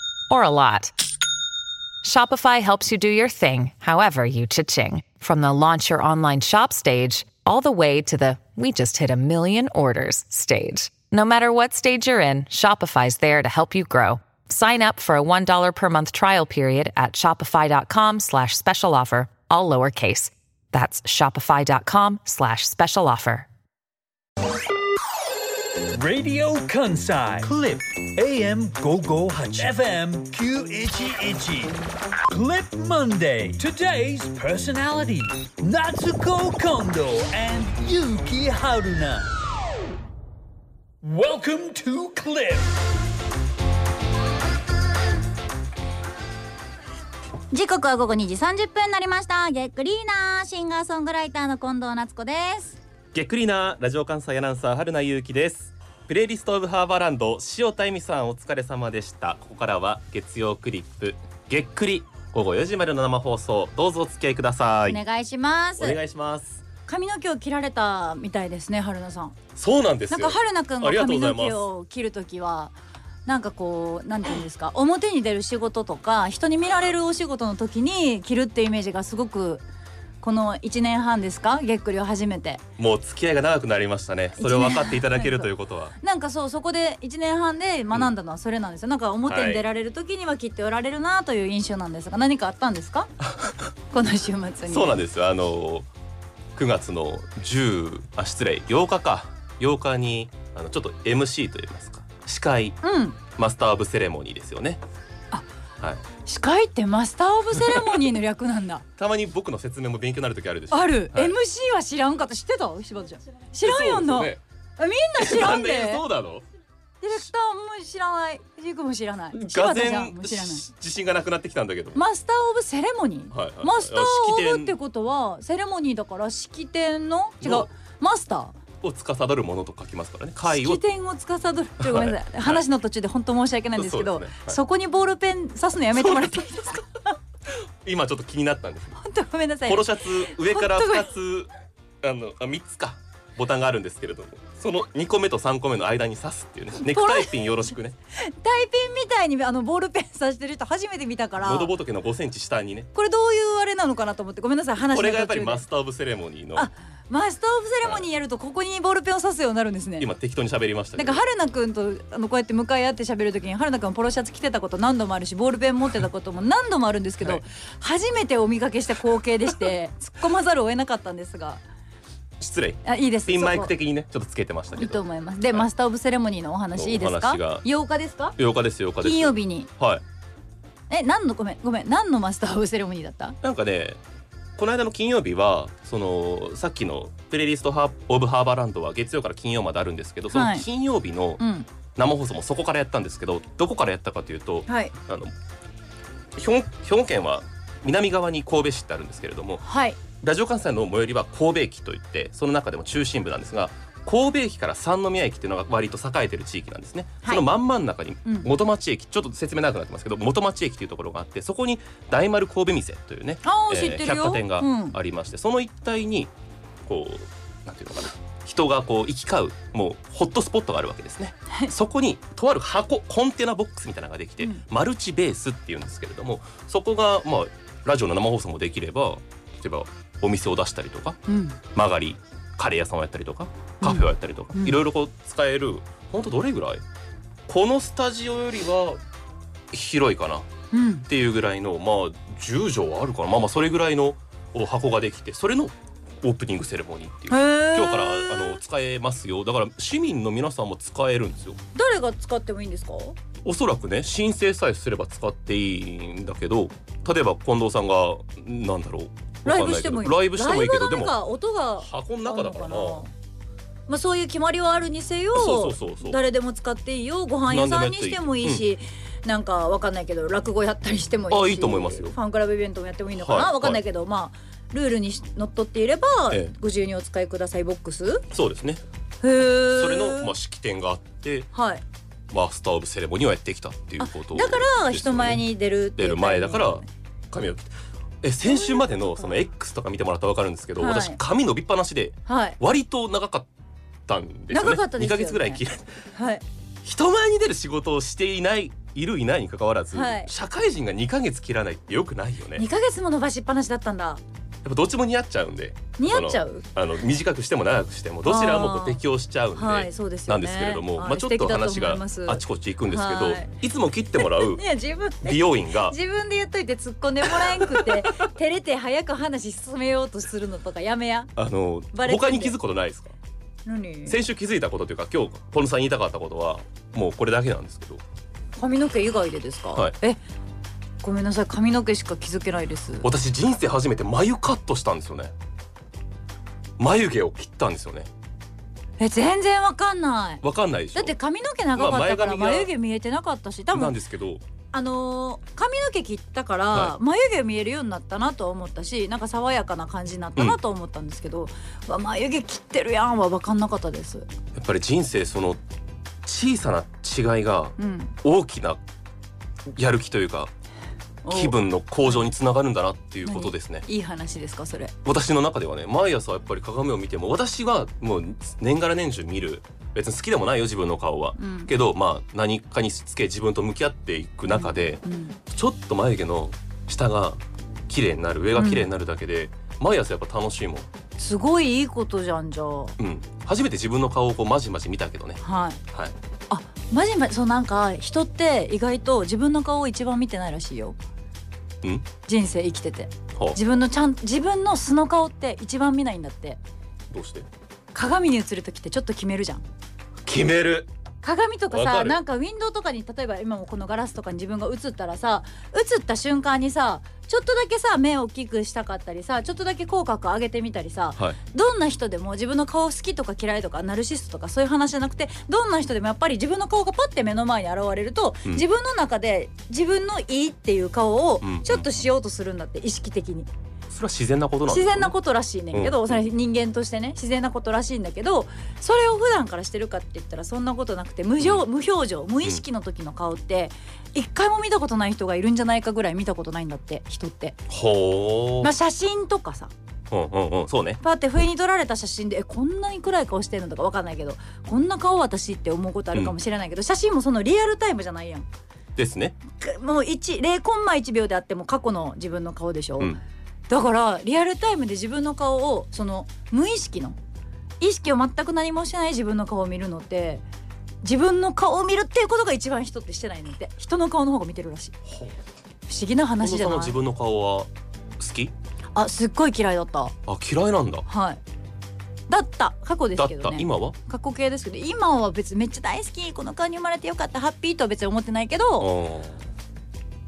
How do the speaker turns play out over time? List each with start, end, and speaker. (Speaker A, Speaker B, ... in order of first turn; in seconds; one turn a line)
Speaker A: 0.3-0.9
Speaker A: 2.0-23.5
Speaker B: 25.9-39.3
Speaker B: 41.0-42.7
Speaker C: 47.5-52.8
Speaker D: 53.1-65.0
Speaker C: 64.9-66.0
Speaker D: 65.8-66.6
Speaker C: 66.9-69.4
Speaker D: 69.5-71.7
Speaker C: 70.1-72.8
Speaker C: 73.2-79.6
Speaker C: 80.2-82.6
Speaker D: 82.8-85.9
Speaker C: 84.4-93.1
Speaker D: 89.3-89.6
Speaker C: 93.9-95.0
Speaker D: 94.7-95.9
Speaker D: 96.5-102.8
Speaker C: 102.8-103.2
Speaker D: 103.3-104.8
Speaker C: 106.2-108.8
Speaker D: 107.5-108.0
Speaker D: 109.0-111.3
Speaker C: 110.7-116.0
Speaker D: 113.6-114.4
Speaker D: 115.2-116.4
Speaker C: 117.0-120.6
Speaker D: 119.3-122.0
Speaker C: 121.9-128.6
Speaker D: 123.3-124.8
Speaker D: 127.4-127.7
Speaker D: 128.8-130.8
Speaker C: 130.4-137.1
Speaker D: 131.8-132.6
Speaker D: 133.8-134.6
Speaker D: 135.9-136.6
Speaker D: 137.5-139.0
Speaker C: 139.0-141.1
Speaker D: 139.7-141.5
Speaker D: 142.0-148.0
Speaker C: 146.8-147.4
Speaker C: 148.2-151.7
Speaker D: 151.4-152.9
Speaker C: 152.9-155.6
Speaker D: 154.9-156.7
Speaker C: 156.6-160.1
Speaker D: 160.0-161.2
Speaker C: 161.0-171.6
Speaker D: 172.4-175.0
Speaker C: 172.8-173.7
Speaker C: 174.8-178.4
Speaker D: 176.8-177.7
Speaker D: 178.4-180.0
Speaker C: 179.0-179.7
Speaker C: 180.9-183.4
Speaker D: 183.4-184.0
Speaker D: 184.6-191.4
Speaker C: 190.3-190.7
Speaker C: 191.4-191.7
Speaker D: 192.0-195.3
Speaker C: 194.7-194.9
Speaker D: 196.3-216.3
Speaker C: 199.6-200.0
Speaker C: 208.2-208.5
Speaker C: 213.4-215.0
Speaker D: 216.8-236.8
Speaker C: 231.3-231.6
Speaker C: 233.8-234.8
Speaker D: 237.5-239.0
Speaker D: 239.7-240.5
Speaker C: 240.7-241.1
Speaker D: 241.1-251.6
Speaker C: 247.3-248.6
Speaker C: 251.8-253.2
Speaker D: 253.4-261.1
Speaker C: 259.4-263.1
Speaker D: 261.8-263.1
Speaker C: 263.9-278.2
Speaker D: 265.4-266.2
Speaker D: 267.5-268.7
Speaker D: 271.3-272.2
Speaker D: 273.2-273.8
Speaker D: 278.3-278.8
Speaker C: 279.2-280.4
Speaker D: 279.6-281.5
Speaker C: 281.5-281.8
Speaker D: 282.3-285.4
Speaker C: 284.0-286.9
Speaker D: 286.0-293.5
Speaker C: 288.4-289.4
Speaker C: 290.8-291.2
Speaker C: 292.2-292.6
Speaker D: 294.1-296.0
Speaker C: 294.5-295.6
Speaker C: 296.1-296.4
Speaker D: 296.8-302.7
Speaker C: 299.9-300.3
Speaker C: 302.6-304.2
Speaker D: 304.6-314.6
Speaker C: 306.0-306.6
Speaker C: 308.2-309.0
Speaker C: 309.6-313.5
Speaker C: 314.2-321.3
Speaker D: 315.2-316.0
Speaker D: 317.3-318.1
Speaker D: 321.4-323.1
Speaker C: 321.9-322.6
Speaker C: 323.7-324.2
Speaker D: 324.1-328.0
Speaker C: 328.6-330.2
Speaker C: 331.0-333.1
Speaker D: 333.0-335.3
Speaker D: 336.8-338.1
Speaker C: 339.0-340.4
Speaker D: 340.4-341.1
Speaker C: 340.9-344.0
Speaker D: 341.8-342.7
Speaker D: 343.7-344.4
Speaker C: 344.7-354.3
Speaker D: 354.5-355.6
Speaker D: 356.2-358.8
Speaker C: 357.8-358.1
Speaker D: 359.8-360.5
Speaker C: 361.2-361.6
Speaker D: 361.3-363.9
Speaker C: 363.2-364.9
Speaker D: 365.1-380.9
Speaker C: 371.4-371.7
Speaker C: 374.5-375.4
Speaker C: 378.6-378.9
Speaker C: 381.2-383.0
Speaker D: 383.0-385.4
Speaker C: 385.4-385.8
Speaker C: 386.5-391.0
Speaker C: 392.2-396.6
Speaker D: 397.1-397.5
Speaker C: 397.9-399.6
Speaker D: 400.2-400.9
Speaker C: 401.2-423.5
Speaker D: 401.7-402.2
Speaker D: 421.4-421.9
Speaker D: 423.9-425.1
Speaker C: 424.7-437.6
Speaker D: 425.7-426.2
Speaker D: 437.7-438.7
Speaker C: 438.6-439.7
Speaker D: 440.1-441.0
Speaker C: 441.0-448.5
Speaker D: 449.0-449.4
Speaker C: 449.5-457.2
Speaker C: 457.8-460.4
Speaker C: 461.0-465.0
Speaker C: 465.9-467.0
Speaker D: 466.4-468.5
Speaker C: 468.9-470.2
Speaker D: 470.2-471.1
Speaker C: 471.1-471.4
Speaker C: 472.3-478.9
Speaker D: 473.2-474.0
Speaker D: 478.8-479.5